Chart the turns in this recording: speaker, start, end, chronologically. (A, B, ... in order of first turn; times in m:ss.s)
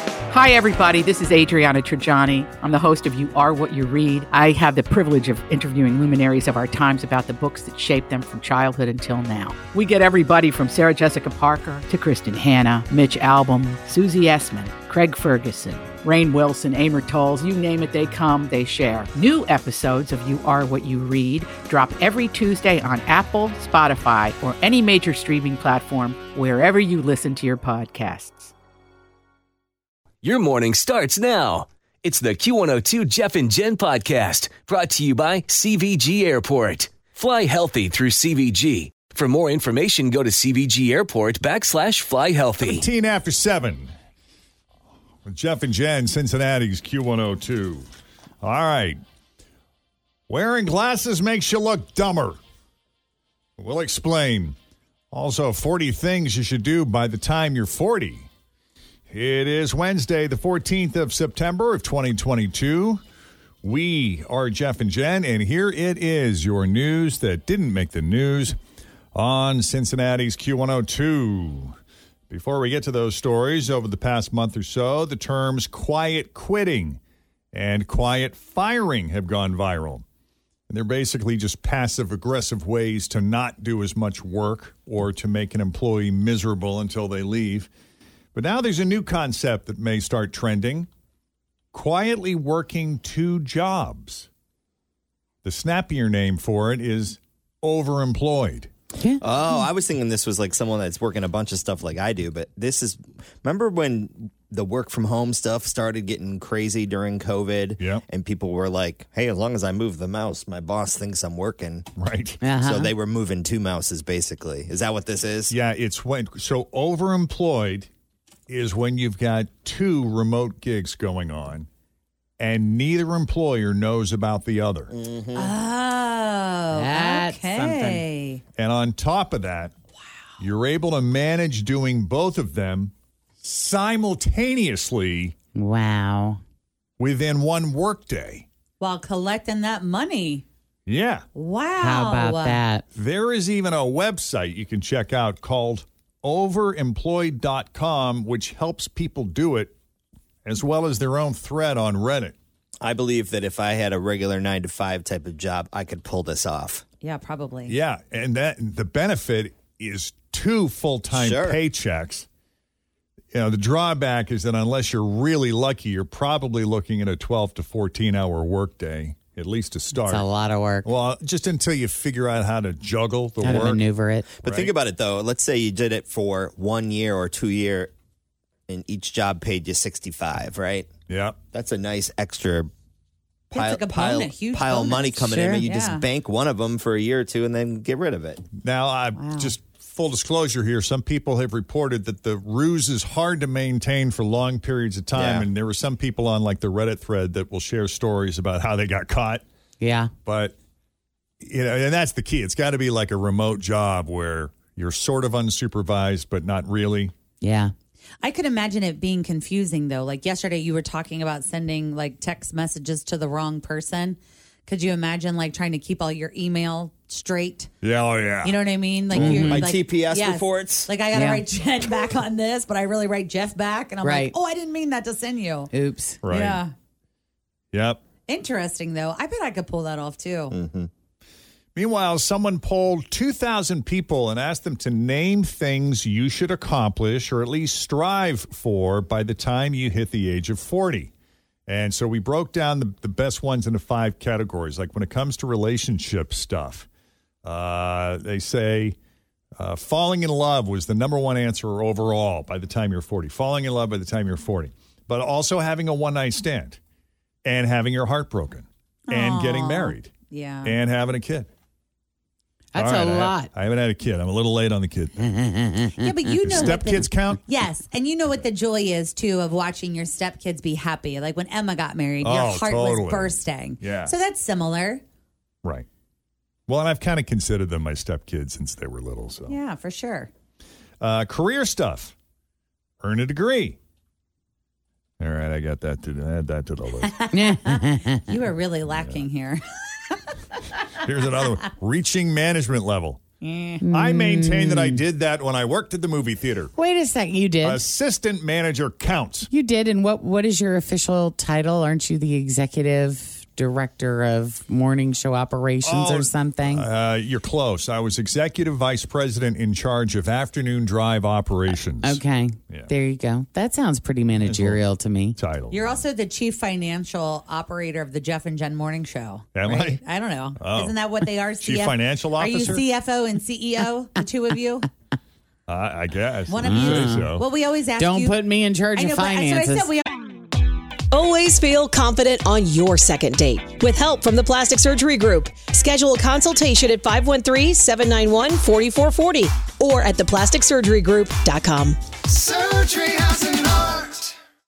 0:00.3-0:28.5 A
0:30.2-0:42.8 B
0:42.6-0:43.9 C
0:45.2-0:47.9 C
0:48.4-0:49.0 C
0:50.3-0:52.4 C
0:53.6-0:54.6 C
0:55.1-0:58.3 C
0:59.1-1:03.0 C
1:03.6-1:08.6 C
1:09.1-1:11.7 C
1:12.3-1:17.0 C
1:17.5-1:20.0 C
1:20.7-1:27.7 C
1:28.3-1:30.9 C
1:31.7-1:34.3 C
1:35.4-1:38.7 C
1:39.2-1:51.9 D
1:47.8-1:48.0 C
1:52.0-1:52.4 C
1:52.4-1:52.9 E
1:52.6-1:55.5 D
1:55.5-1:57.9 C
1:58.5-2:01.7 C
2:02.4-2:04.9 C
2:04.9-2:05.5 D
2:05.3-2:08.4 F
2:06.7-2:08.0 E
2:08.6-2:09.7 C
2:10.4-2:15.3 C
2:15.5-2:16.4 E
2:17.0-2:18.5 C
2:18.8-2:20.4 F
2:20.9-2:21.2 C
2:21.3-2:22.6 F
2:21.8-2:22.8 E
2:22.9-2:29.7 C
2:30.4-2:32.3 C
2:32.8-2:36.8 D
2:37.0-2:37.8 F
2:37.7-2:42.3 C
2:41.1-2:41.6 D
2:43.3-2:50.2 C
2:50.0-2:50.9 E
2:50.8-2:53.9 C
2:53.4-2:54.2 E
2:54.4-2:57.9 D
2:54.4-2:54.7 C
2:58.7-3:00.9 D
3:01.1-3:01.4 C
3:01.5-3:02.7 D
3:03.5-3:08.5 D
3:03.5-3:06.0 F
3:08.6-3:19.4 C
3:09.2-3:09.5 F
3:15.1-3:15.5 D
3:19.8-3:20.1 E
3:20.2-3:20.6 C
3:21.4-3:27.1 C
3:27.4-3:27.7 E
3:28.2-3:37.7 F
3:37.8-3:38.6 C
3:38.4-3:45.7 F
3:39.1-3:40.9 D
3:39.2-3:39.6 E
3:39.2-3:39.6 C
3:41.1-3:41.4 E
3:44.0-3:44.3 E
3:45.7-3:46.2 E
3:46.2-3:46.6 C
3:46.3-3:46.7 F
3:47.7-3:48.0 C
3:48.3-3:50.6 F
3:50.5-3:50.9 D
3:51.7-4:01.1 C
4:01.7-4:06.9 C
4:07.4-4:09.0 C
4:09.5-4:16.8 C
4:17.4-4:20.1 C
4:19.1-4:20.7 F
4:20.6-4:21.5 C
4:22.7-4:23.5 E
4:22.8-4:25.3 C
4:25.4-4:26.0 E
4:26.0-4:35.0 F
4:26.4-4:27.4 C
4:32.2-4:34.1 C
4:36.7-4:39.6 C
4:39.5-4:40.3 F
4:41.0-4:42.1 C
4:43.0-4:43.8 C
4:45.2-4:47.1 C
4:47.1-4:50.3 F
4:47.3-4:48.3 E
4:51.0-4:53.2 C
4:53.4-4:53.8 F
4:53.8-4:55.0 E
4:53.9-4:56.7 C
4:56.8-4:57.8 E
4:57.6-4:59.5 C
4:59.5-5:06.9 E
5:05.8-5:12.9 C
5:12.0-5:15.4 E
5:14.4-5:14.8 C
5:15.4-5:16.0 C
5:15.7-5:24.9 F
5:19.5-5:20.0 C
5:20.6-5:21.0 C
5:21.6-5:22.8 C
5:25.7-5:27.4 C
5:26.5-5:30.1 F
5:26.6-5:27.3 E
5:28.0-5:29.9 E
5:31.1-5:42.5 G
5:42.6-5:43.2 D